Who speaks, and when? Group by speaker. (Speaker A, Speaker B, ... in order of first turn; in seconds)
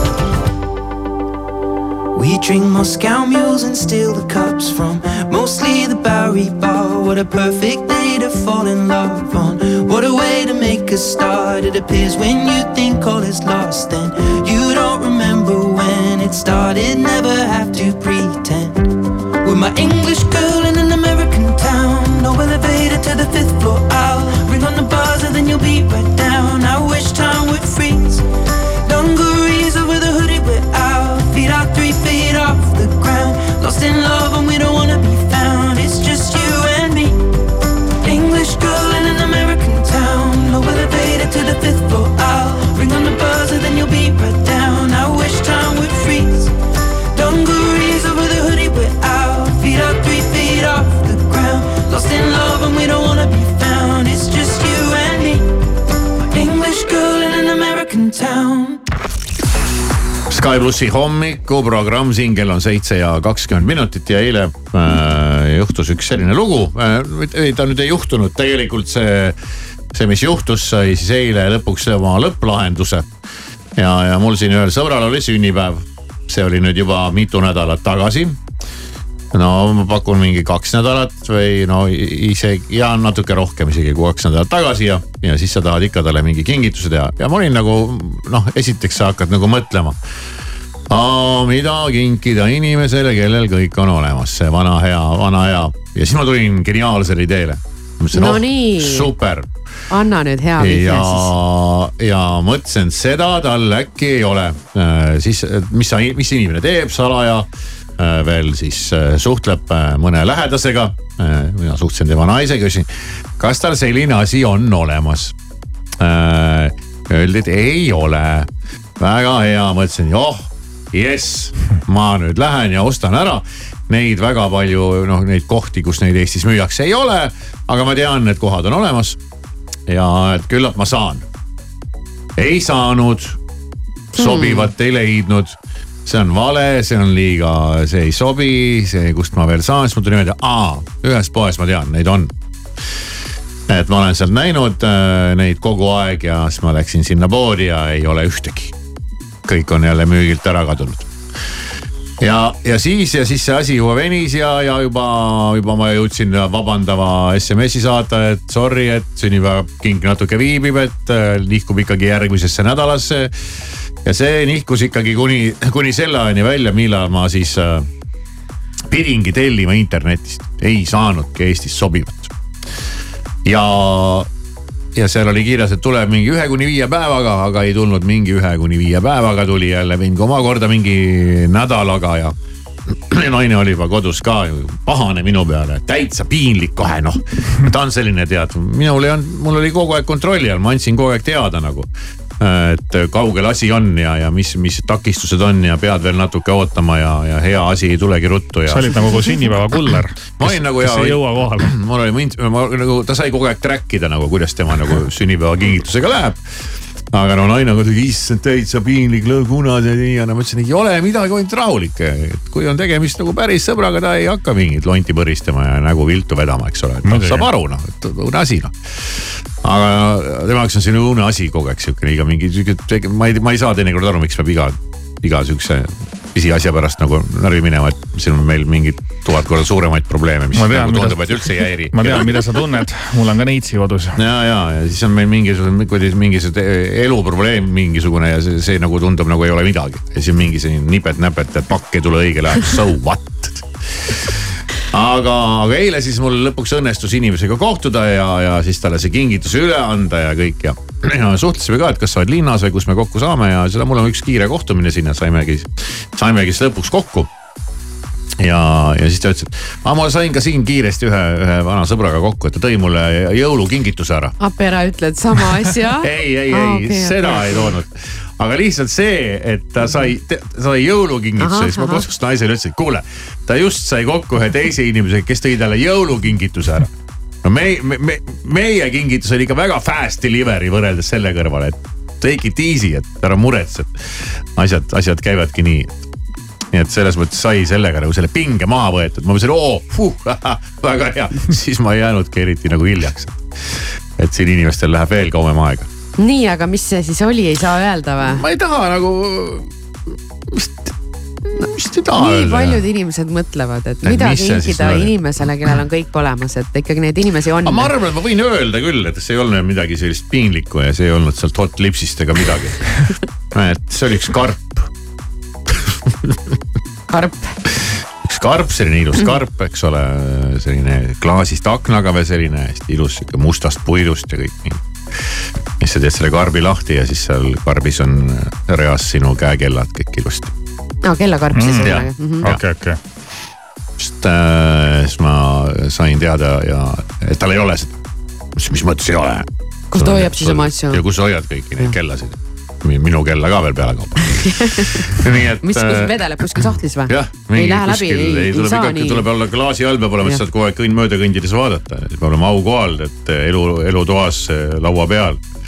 Speaker A: 2.1-28.2, 28.8-37.2, 38.0-46.5, 47.1-55.5, 56.3-58.8
Speaker B: 60.3-69.3, 69.9-73.1, 73.8-78.4, 79.3-90.0, 90.9-99.5, 100.6-107.5, 108.0-112.9, 113.4-115.3, 116.0-118.5, 119.0-129.2, 129.9-131.2, 132.4-133.4, 134.2-142.3, 143.7-148.7, 149.4-151.1, 152.2-163.3, 164.0-167.9, 168.9-172.3, 173.4-174.3, 174.9-182.3, 183.1-191.9, 192.4-199.6, 200.4-206.4, 207.1-218.7, 219.6-232.3, 234.2-243.6, 244.9-257.3, 258.4-264.3, 266.0-276.9, 277.4-284.0, 284.5-285.9, 286.7-293.4, 294.2-295.9, 298.2-299.7, 300.5-300.9, 301.6-302.8, 304.0-305.1, 307.6-312.9, 313.5-314.9, 318.2-324.8, 325.8-330.5, 331.8-332.6, 334.0-338.0, 338.6-355.4
Speaker C: 98.1-99.1, 99.9-101.3, 134.1-134.7, 264.4-267.5, 271.4-272.0, 296.2-298.4, 301.6-307.9, 317.1-317.4, 331.0-332.4, 339.9-341.0, 344.4-345.0, 345.6-349.2
Speaker D: 198.7-201.7, 217.0-217.5, 230.5-234.2, 331.5-333.0